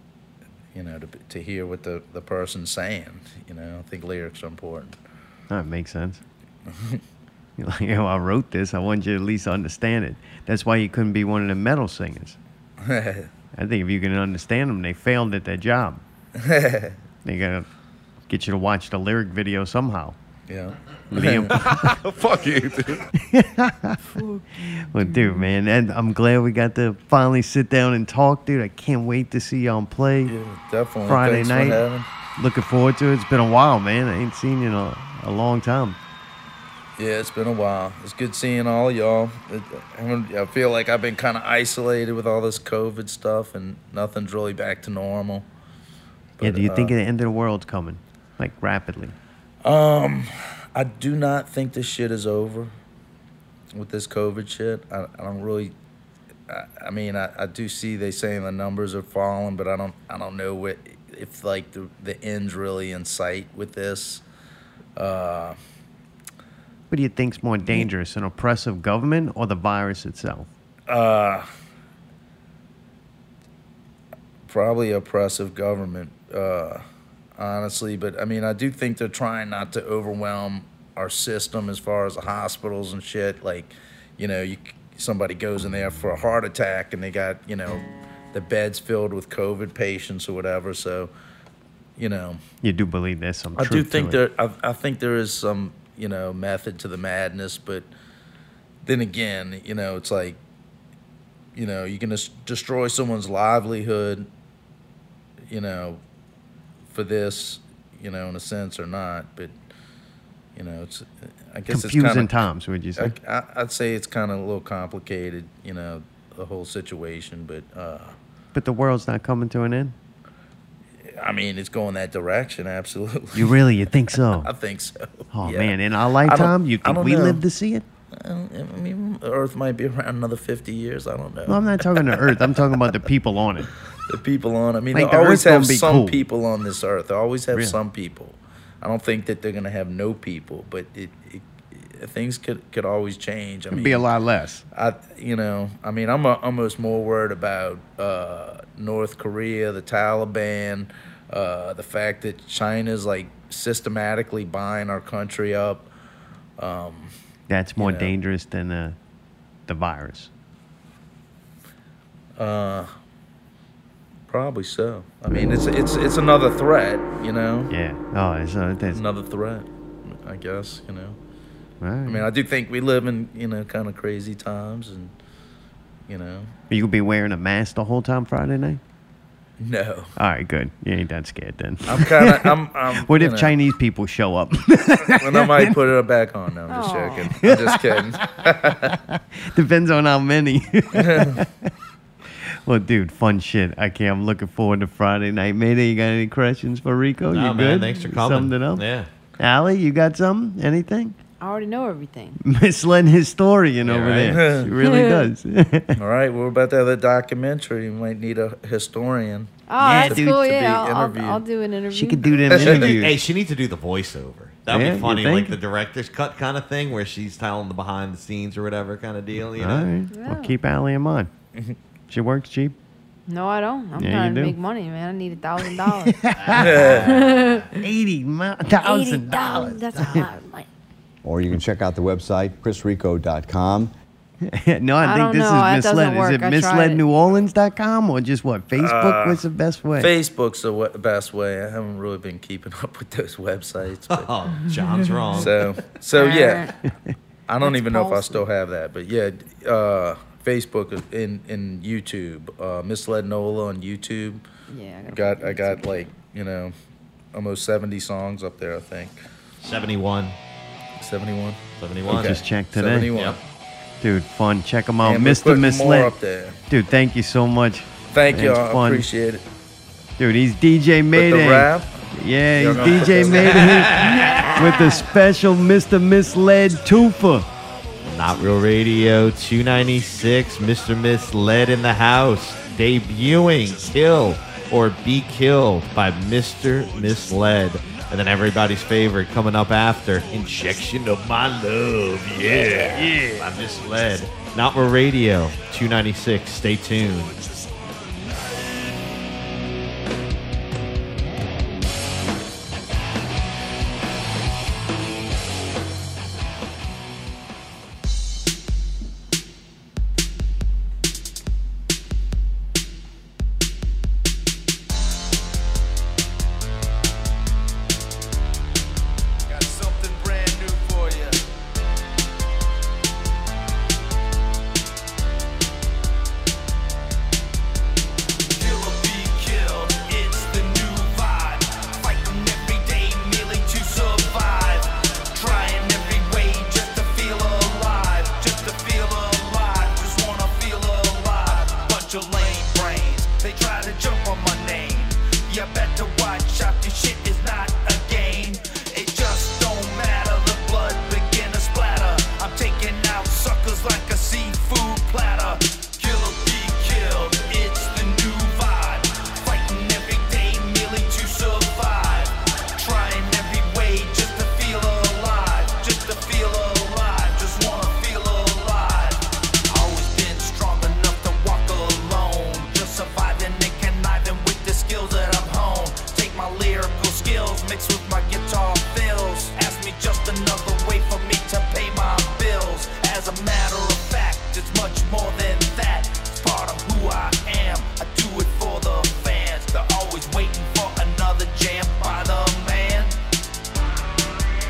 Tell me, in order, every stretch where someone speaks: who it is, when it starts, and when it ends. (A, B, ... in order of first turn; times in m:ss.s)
0:00.7-0:05.0 A
0:05.5-0:06.2 B
0:06.7-0:07.0 A
0:07.6-0:12.4 B
0:12.8-0:13.3 A
0:13.5-0:16.0 B
0:16.4-0:17.0 A
0:17.2-0:17.7 B
0:18.3-0:20.2 B
0:20.5-0:21.6 A
0:21.1-0:22.0 B
0:22.1-0:23.0 A
0:23.1-0:24.0 B
0:24.1-0:25.5 C
0:24.7-0:30.3 B
0:30.2-0:32.1 A
0:31.0-0:31.8 B
0:32.4-0:36.0 B
0:37.0-0:45.5 A
0:46.4-0:46.9 A
0:46.4-0:49.2 B
0:49.6-0:52.7 A
0:53.7-0:55.7 A
0:56.5-1:04.2 A
1:05.0-1:05.6 A
1:06.9-1:10.5 B
1:10.9-1:11.4 A
1:14.5-1:16.8 A
1:17.4-1:31.1 A
1:32.0-1:32.4 A
1:32.6-1:34.2 B
1:33.6-1:37.9 A
1:38.8-1:40.4 A
1:41.5-1:44.3 A
1:45.5-1:46.0 A
1:46.9-1:49.5 A
1:50.6-1:52.3 A
1:51.7-1:53.1 B
1:53.0-1:58.1 A
1:58.5-1:59.9 B
2:01.2-2:03.6 A
2:03.3-2:04.5 B
2:04.4-2:07.4 A
2:05.3-2:07.8 B
2:08.2-2:12.4 A
2:11.4-2:13.7 B
2:14.1-2:24.0 A
2:14.9-2:16.2 B
2:17.5-2:17.8 B
2:23.7-2:24.6 B
2:24.7-2:35.9 A
2:36.6-2:37.1 A
2:37.5-2:39.0 B
2:37.8-2:38.1 A
2:39.7-2:40.3 B
2:42.4-2:42.9 A
2:44.3-2:47.7 A
2:45.3-2:45.6 B
2:47.7-2:49.0 B
2:48.9-2:51.2 A
2:51.8-2:52.2 B
2:52.1-2:55.1 A
2:56.1-2:56.5 A
2:56.7-2:58.8 B
2:59.6-3:00.1 A
3:00.2-3:05.8 B
3:01.9-3:03.5 A
3:05.1-3:08.9 A
3:06.7-3:07.3 C
3:07.3-3:11.7 B
3:11.0-3:11.4 A
3:12.4-3:18.8 B
3:17.3-3:19.1 D
3:19.4-3:21.1 B
3:21.4-3:22.4 C
3:22.4-3:26.0 B
3:23.8-3:24.4 D
3:24.3-3:24.7 A
3:24.8-3:25.3 C
3:26.0-3:29.5 A
3:29.7-3:32.5 C
3:29.8-3:30.4 B
3:30.0-3:31.4 A
3:31.9-3:33.2 B
3:32.5-3:32.9 A
3:32.6-3:39.9 D
3:34.7-3:35.6 B
3:39.5-3:41.3 B
3:40.1-3:40.6 C
3:42.1-3:42.8 B
3:43.3-3:46.2 C
3:44.0-3:44.6 B
3:45.6-3:47.0 B
3:46.4-3:47.7 D
3:46.6-3:47.1 A
3:47.0-3:47.8 C
3:47.8-3:50.3 B
3:48.8-3:50.6 C
3:51.2-3:53.9 E
3:54.4-4:00.1 B
3:55.0-3:57.0 C
3:58.8-3:59.4 A
4:00.0-4:04.3 A
4:04.1-4:05.6 D
4:04.6-4:05.5 C
4:05.4-4:06.7 A
4:06.1-4:06.7 C
4:07.5-4:14.4 A
4:07.6-4:08.4 C
4:14.7-4:16.1 C
4:15.1-4:16.7 A
4:17.3-4:19.2 A
4:19.6-4:20.4 D
4:21.0-4:23.4 A
4:21.8-4:22.4 D
4:22.1-4:23.1 B
4:23.1-4:23.4 D
4:24.0-4:26.1 B
4:25.0-4:26.6 A
4:26.7-4:29.0 B
4:28.1-4:29.4 A
4:30.2-4:37.5 B
4:31.1-4:31.9 A
4:32.5-4:33.7 A
4:32.7-4:34.3 D
4:34.0-4:35.0 C
4:38.0-4:57.4 D
4:52.8-4:53.5 B
5:19.5-5:21.4 F
5:28.5-6:33.2 F